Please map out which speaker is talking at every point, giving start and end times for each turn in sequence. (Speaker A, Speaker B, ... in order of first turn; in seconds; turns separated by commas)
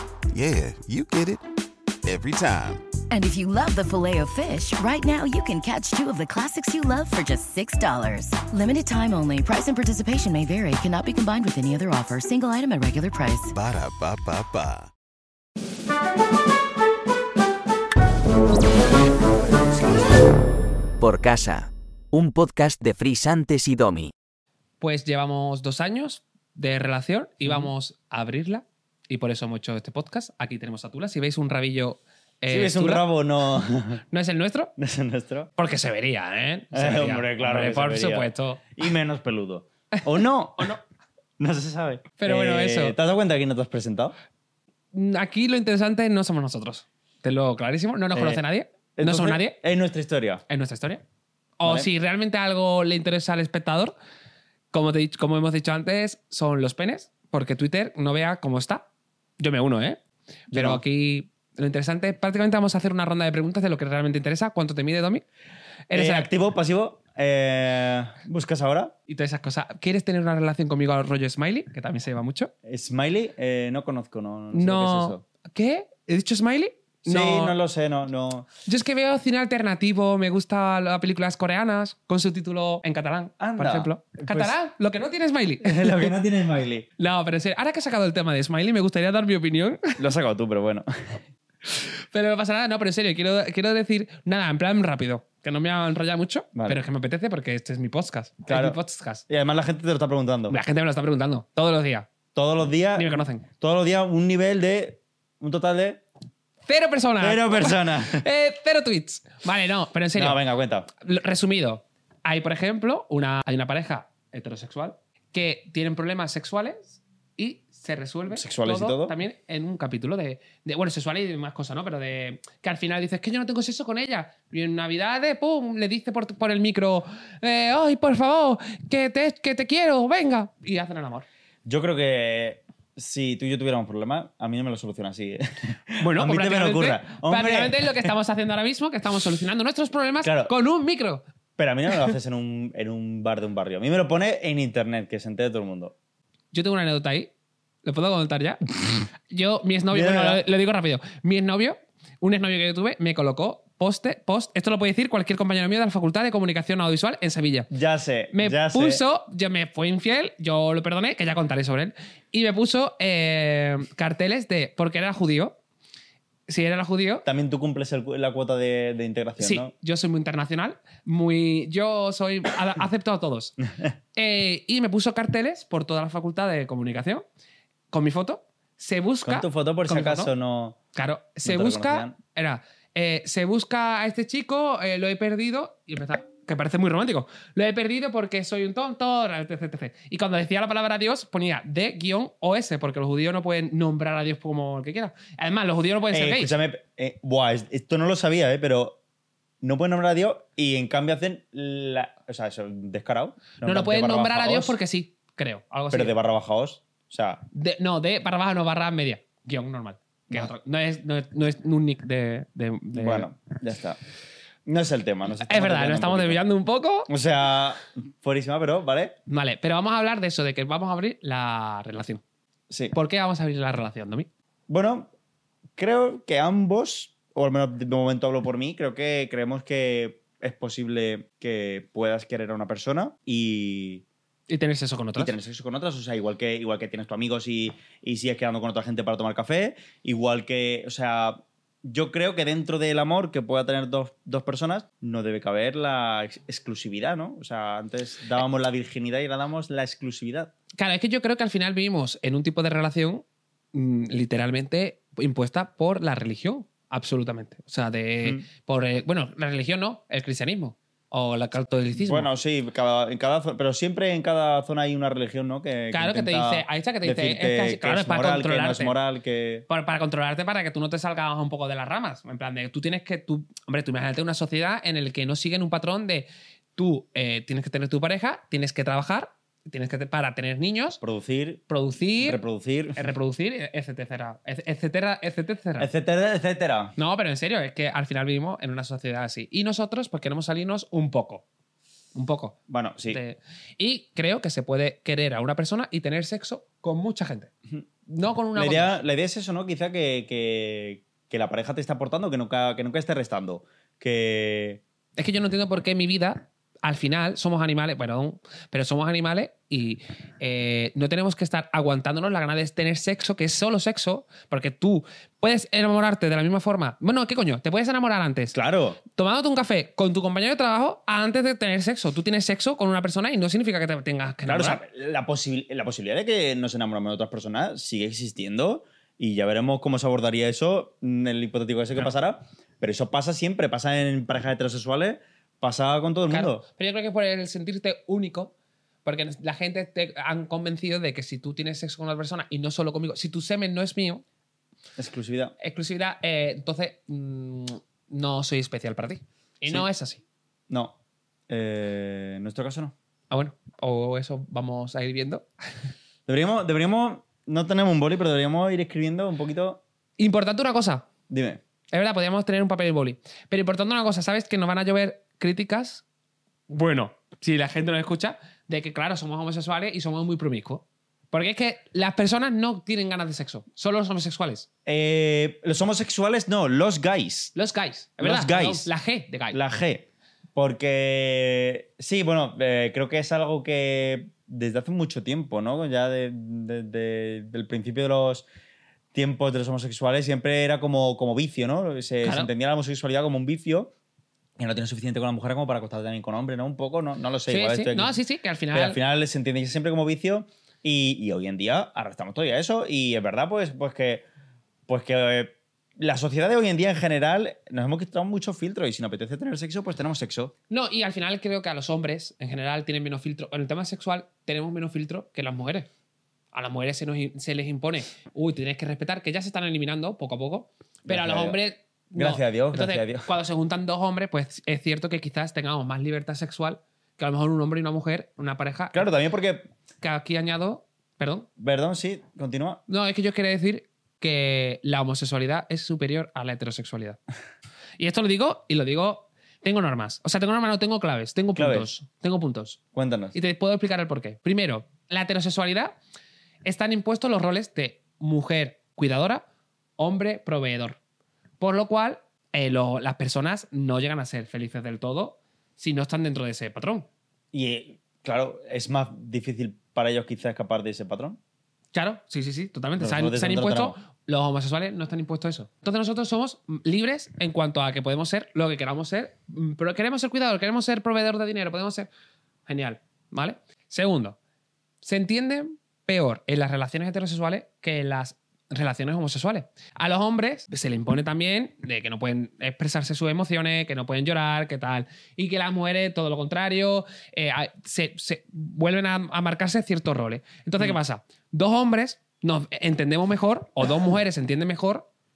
Speaker A: 0.3-1.4, Speaker A: 2.0-2.9, Speaker B: 3.1-13.6, Speaker A: 13.5-14.9, Speaker C: 19.4-20.1, Speaker C: 21.0-24.1, Speaker D: 24.8-33.0, Speaker E: 32.5-34.0, Speaker D: 34.1-34.7, Speaker E: 34.8-35.5, Speaker D: 35.6-38.7, Speaker E: 36.7-40.8, Speaker E: 41.4-44.1, Speaker D: 42.2-43.0, Speaker D: 44.9-49.6, Speaker E: 48.1-48.4, Speaker E: 49.0-50.4, Speaker D: 50.5-51.0, Speaker D: 51.6-53.9, Speaker D: 54.7-58.9, Speaker D: 59.4-60.0, Speaker D: 60.5-65.2, Speaker E: 60.5-60.8, Speaker D: 65.9-66.3, Speaker E: 65.9-68.9, Speaker D: 69.1-72.5, Speaker E: 72.7-75.2, Speaker D: 74.5-77.6, Speaker E: 77.0-78.5, Speaker D: 78.7-86.1, Speaker E: 83.4-84.5, Speaker E: 85.6-86.9, Speaker D: 87.0-90.0, Speaker E: 90.0-91.2, Speaker D: 91.7-99.2, Speaker E: 96.5-96.8, Speaker E: 98.5-100.6, Speaker D: 100.5-102.1, Speaker E: 102.3-106.0, Speaker D: 103.0-103.5, Speaker D: 106.7-110.4, Speaker E: 107.2-108.3, Speaker E: 110.2-110.9, Speaker D: 111.0-131.3, Speaker E: 118.3-119.2, Speaker E: 131.7-138.1, Speaker D: 136.0-141.2, Speaker E: 140.2-140.5, Speaker E: 141.6-145.9, Speaker D: 146.5-147.3, Speaker D: 147.8-148.6, Speaker D: 149.3-157.7, Speaker E: 149.9-150.4, Speaker E: 157.7-159.0, Speaker D: 158.3-165.6, Speaker D: 166.5-167.2, Speaker E: 167.2-169.7, Speaker D: 169.4-173.6, Speaker D: 174.2-177.3, Speaker D: 177.9-180.3, Speaker E: 179.2-180.8, Speaker D: 180.9-196.6, Speaker E: 181.4-182.2, Speaker E: 196.1-199.0, Speaker E: 199.6-204.8, Speaker D: 203.6-206.1, Speaker E: 205.9-207.4, Speaker D: 207.5-213.3, Speaker E: 212.9-214.0, Speaker E: 214.7-216.4, Speaker D: 215.4-217.1, Speaker E: 217.1-219.2, Speaker D: 219.3-222.2, Speaker E: 222.7-222.9, Speaker D: 222.9-224.3, Speaker E: 224.7-225.1, Speaker E: 225.8-234.0, Speaker D: 234.5-235.4, Speaker E: 235.2-250.5, Speaker D: 250.8-262.3, Speaker E: 261.9-269.7, Speaker D: 265.9-269.0, Speaker D: 269.7-281.0, Speaker E: 281.0-281.6, Speaker D: 281.7-282.4, Speaker E: 282.2-283.1, Speaker D: 283.0-285.9, Speaker E: 285.8-287.0, Speaker D: 287.0-291.4, Speaker D: 292.1-292.6, Speaker E: 292.7-293.2, Speaker D: 293.1-297.5, Speaker D: 298.1-299.0, Speaker E: 298.6-304.8, Speaker D: 305.2-318.5, Speaker E: 318.5-319.0, Speaker D: 319.1-324.8, Speaker E: 324.5-336.6, Speaker D: 336.3-338.5, Speaker D: 339.1-344.2, Speaker E: 345.0-345.5, Speaker D: 345.6-350.2, Speaker E: 350.7-351.0, Speaker E: 351.5-352.9, Speaker D: 353.3-355.5, Speaker E: 356.3-359.8, Speaker D: 360.2-361.1, Speaker E: 361.3-361.6, Speaker D: 361.9-366.0, Speaker D: 366.7-374.7, Speaker E: 374.9-377.6, Speaker D: 377.6-379.6, Speaker E: 378.2-378.9, Speaker E: 379.5-388.5, Speaker E: 389.1-393.9, Speaker D: 392.2-392.5, Speaker E: 394.6-398.2, Speaker D: 397.5-399.0, Speaker E: 398.7-404.3, Speaker E: 404.9-410.5, Speaker D: 410.7-415.9, Speaker D: 416.5-429.1, Speaker E: 421.1-421.6, Speaker E: 422.2-423.3, Speaker E: 428.9-429.7, Speaker D: 430.0-431.5, Speaker E: 431.6-432.8, Speaker D: 432.9-437.2, Speaker D: 438.0-442.8, Speaker E: 441.6-441.9, Speaker E: 442.9-443.4, Speaker D: 443.3-446.0, Speaker D: 446.6-449.4, Speaker D: 450.0-451.0, Speaker D: 451.6-457.1, Speaker E: 457.5-461.4, Speaker D: 461.9-472.1, Speaker E: 463.0-464.0, Speaker D: 472.7-474.4, Speaker D: 475.0-495.1